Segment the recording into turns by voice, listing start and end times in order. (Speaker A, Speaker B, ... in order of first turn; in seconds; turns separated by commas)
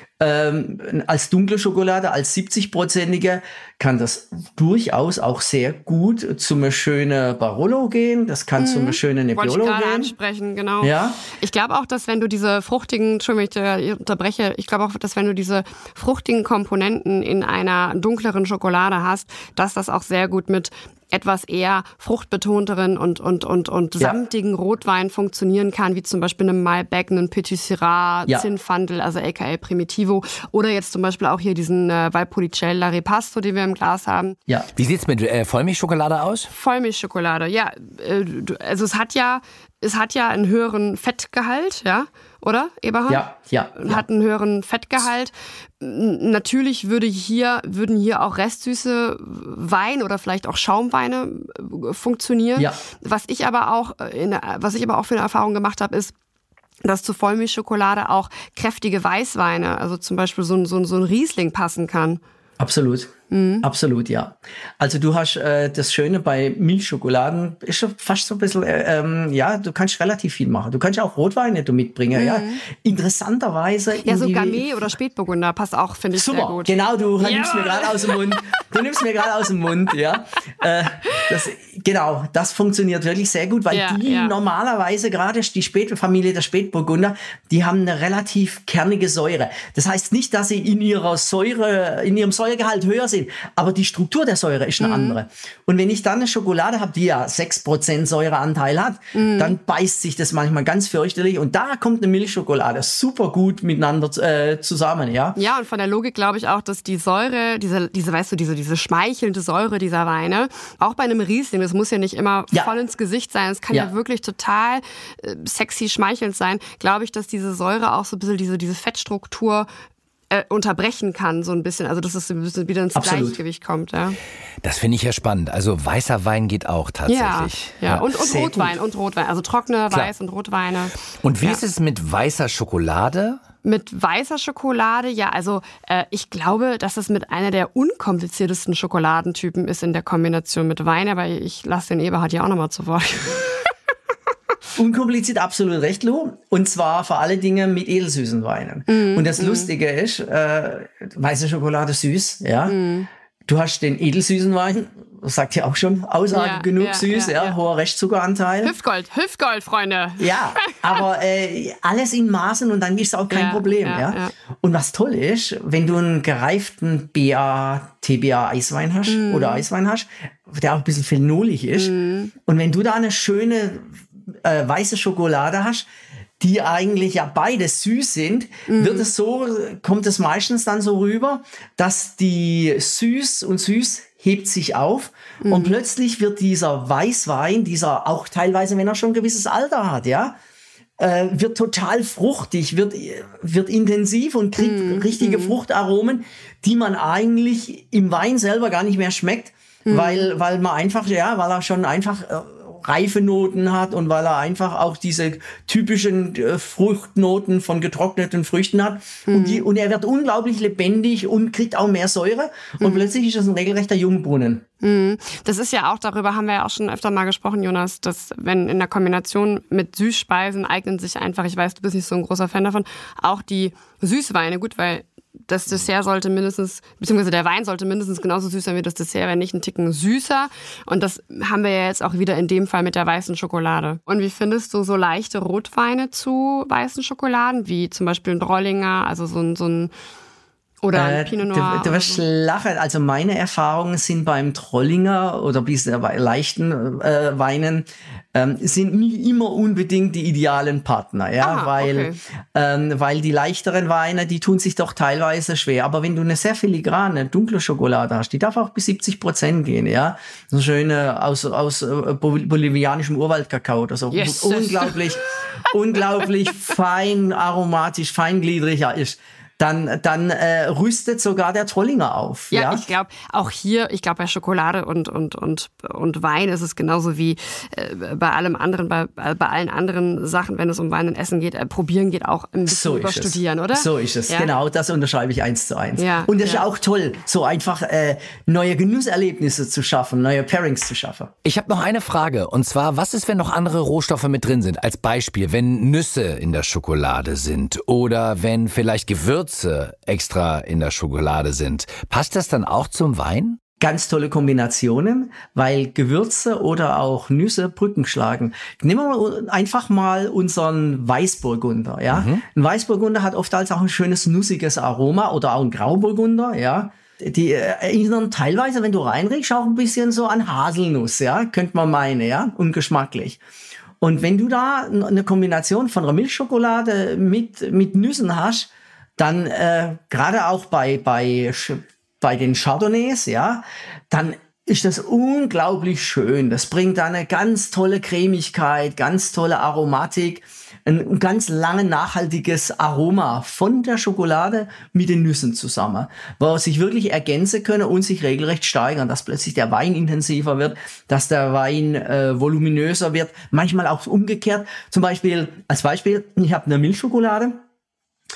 Speaker A: 0.2-10.1, Speaker B: 8.6-34.4, Speaker A: 10.8-11.2, Speaker C: 34.8-36.5, Speaker B: 36.5-56.1, Speaker A: 43.1-44.0, Speaker B: 56.8-62.2, Speaker A: 62.6-74.6, Speaker B: 63.3-63.6, Speaker B: 72.1-72.6, Speaker B: 74.0-78.4, Speaker A: 76.1-105.4, Speaker B: 83.7-84.3, Speaker B: 94.8-95.2, Speaker B: 99.1-99.5, Speaker B: 105.3-119.7, Speaker B: 120.3-124.2, Speaker A: 122.9-123.4, Speaker C: 124.6-128.1, Speaker B: 127.1-131.6, Speaker A: 128.1-128.8, Speaker C: 131.1-133.4, Speaker B: 133.6-143.7, Speaker A: 144.8-152.8, Speaker B: 148.9-149.7, Speaker B: 152.7-153.1, Speaker A: 153.4-158.7, Speaker B: 156.3-157.6, Speaker B: 158.6-160.9, Speaker A: 160.2-171.9, Speaker B: 163.3-164.3, Speaker B: 169.1-169.6, Speaker B: 171.7-172.3, Speaker A: 172.4-175.8, Speaker A: 176.4-190.3, Speaker B: 178.7-179.1, Speaker B: 185.4-185.7, Speaker A: 191.0-214.6, Speaker B: 194.6-195.6, Speaker B: 199.9-200.2, Speaker B: 209.3-209.6, Speaker B: 212.8-213.1, Speaker B: 214.8-239.9, Speaker B: 240.8-242.2, Speaker A: 240.9-272.9, Speaker B: 251.4-252.2, Speaker B: 264.1-265.0, Speaker B: 272.5-284.5, Speaker A: 282.7-291.3, Speaker B: 286.0-286.6, Speaker C: 291.4-303.6, Speaker A: 303.8-323.4, Speaker C: 312.1-312.4, Speaker A: 324.0-357.6